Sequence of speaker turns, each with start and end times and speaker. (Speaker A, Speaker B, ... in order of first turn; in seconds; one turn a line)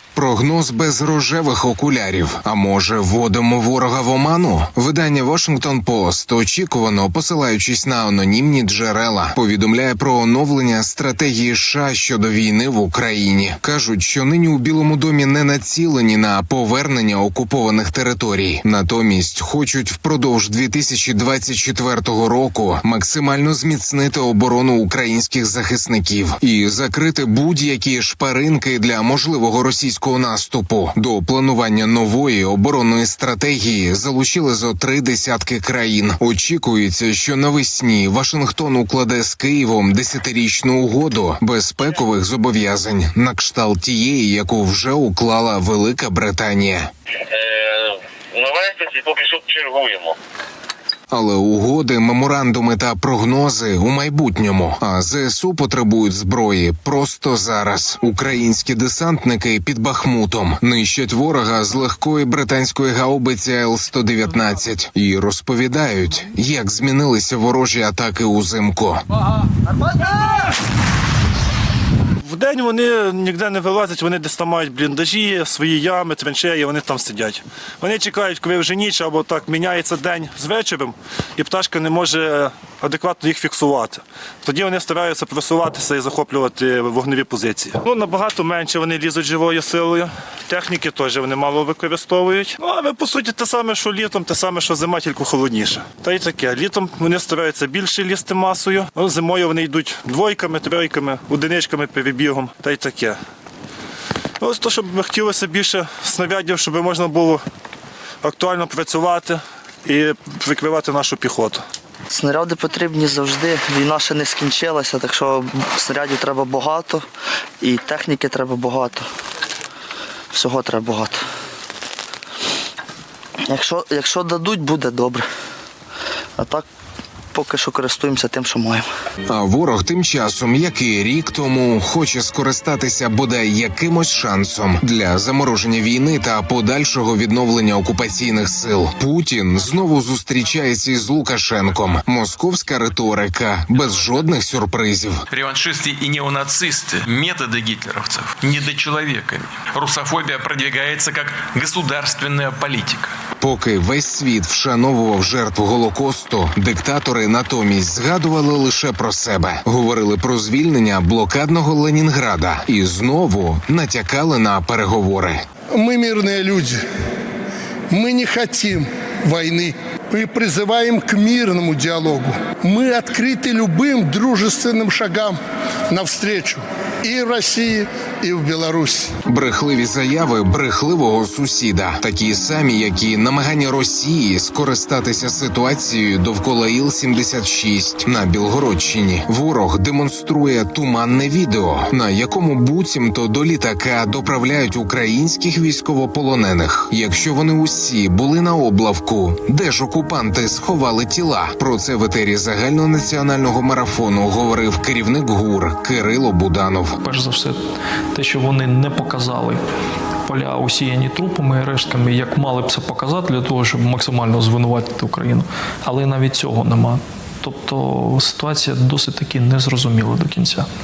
Speaker A: 0.1-46.9
Speaker B: 47.4-50.1
Speaker A: 51.1-69.0
Speaker C: 72.3-103.1
Speaker C: 104.4-107.4
Speaker C: 108.2-111.6
Speaker D: 112.1-117.1
Speaker D: 117.6-119.1
Speaker D: 120.3-121.2
Speaker D: 123.4-125.3
Speaker D: 126.4-126.7
Speaker D: 127.3-128.9
Speaker A: 129.3-145.2
Speaker E: 145.3-153.1
Speaker A: 153.4-165.4
Speaker F: 165.7-166.8
Speaker F: 167.9-175.4
Speaker F: 175.9-179.1
Speaker A: 179.3-207.0
Speaker G: 207.0-207.6
Speaker G: 208.1-209.6
Speaker G: 210.3-220.7